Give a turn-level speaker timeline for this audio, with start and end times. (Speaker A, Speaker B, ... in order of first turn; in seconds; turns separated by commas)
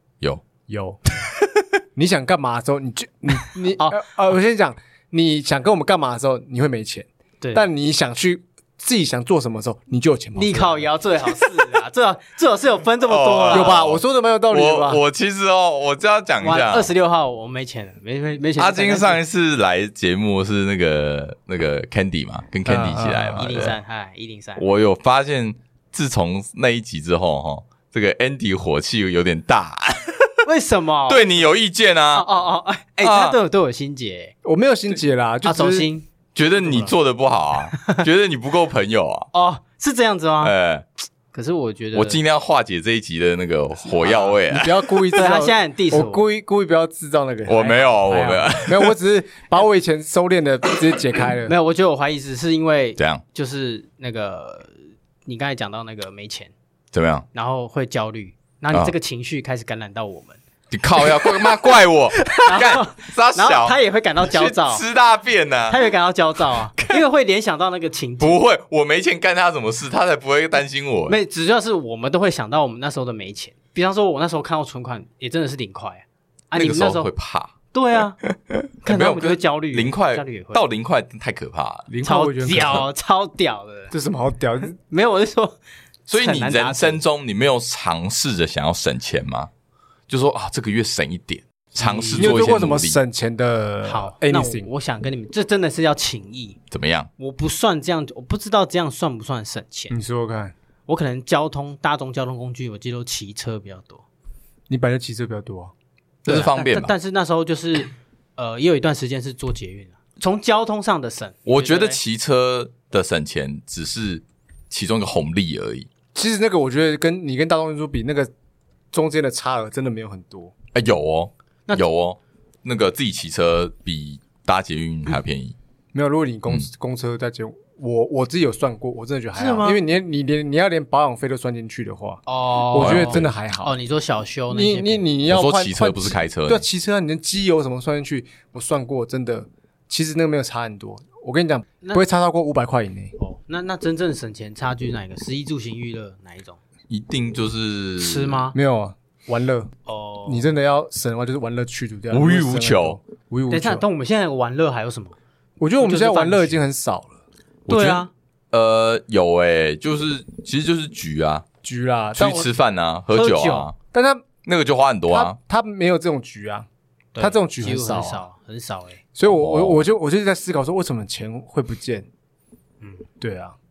Speaker A: 0.7-1.0, Speaker A: 2.0-10.9, Speaker B: 3.8-4.0, Speaker B: 7.4-7.7, Speaker B: 10.3-13.9, Speaker C: 13.1-14.0, Speaker A: 13.5-15.0, Speaker C: 14.5-16.9, Speaker B: 16.4-19.2, Speaker C: 18.6-23.8, Speaker A: 22.6-23.7, Speaker B: 23.4-24.7, Speaker C: 24.6-30.4, Speaker B: 30.4-31.3, Speaker C: 31.1-32.3, Speaker B: 32.1-34.3, Speaker C: 33.0-33.4, Speaker A: 34.4-35.9, Speaker B: 35.4-36.1, Speaker C: 36.4-39.3, Speaker B: 36.6-36.9, Speaker B: 37.7-38.0, Speaker B: 39.3-40.5, Speaker C: 40.4-40.9, Speaker B: 41.3-42.2, Speaker C: 42.0-44.8, Speaker B: 44.0-44.4, Speaker A: 44.5-51.5, Speaker B: 45.1-46.3, Speaker C: 47.5-49.0, Speaker B: 51.5-54.7, Speaker C: 53.0-53.2, Speaker B: 55.3-56.5, Speaker C: 56.9-57.3, Speaker B: 57.3-60.4, Speaker C: 60.7-65.8, Speaker B: 61.0-64.8, Speaker B: 65.7-68.4, Speaker C: 68.2-71.2, Speaker B: 71.1-77.1, Speaker C: 76.5-77.5, Speaker B: 77.7-78.2, Speaker C: 78.5-81.9, Speaker B: 78.8-80.6, Speaker A: 81.9-82.9, Speaker B: 82.0-83.9, Speaker A: 83.9-84.8, Speaker B: 84.8-85.6, Speaker C: 86.1-89.5, Speaker B: 86.2-87.0, Speaker C: 90.1-93.0, Speaker B: 91.8-92.4, Speaker A: 92.2-94.7, Speaker B: 93.8-96.6, Speaker C: 96.7-97.1, Speaker B: 97.2-100.0, Speaker A: 99.9-100.5, Speaker B: 100.9-104.0, Speaker A: 104.7-105.7, Speaker C: 106.2-106.9, Speaker B: 106.3-112.0, Speaker C: 111.5-115.9, Speaker A: 116.2-118.3, Speaker A: 118.9-120.5, Speaker C: 120.7-125.5, Speaker A: 125.9-133.7, Speaker B: 129.3-129.8, Speaker B: 132.3-135.1, Speaker C: 132.8-133.3, Speaker A: 134.5-143.2, Speaker C: 135.3-136.7, Speaker B: 143.2-146.6, Speaker C: 146.9-148.5, Speaker B: 148.0-148.6, Speaker A: 148.5-149.7, Speaker B: 149.9-150.5, Speaker A: 150.3-153.8, Speaker C: 152.1-153.0, Speaker B: 153.5-155.2, Speaker A: 155.6-157.2, Speaker B: 155.8-156.6, Speaker C: 157.7-161.4, Speaker B: 157.7-158.1, Speaker A: 161.6-162.5, Speaker C: 162.2-163.8, Speaker B: 163.1-163.7, Speaker A: 163.9-164.3, Speaker C: 164.4-165.4, Speaker A: 165.1-166.7, Speaker B: 167.2-169.0, Speaker A: 167.2-168.2, Speaker A: 169.2-172.1, Speaker C: 169.3-169.8, Speaker A: 173.2-173.6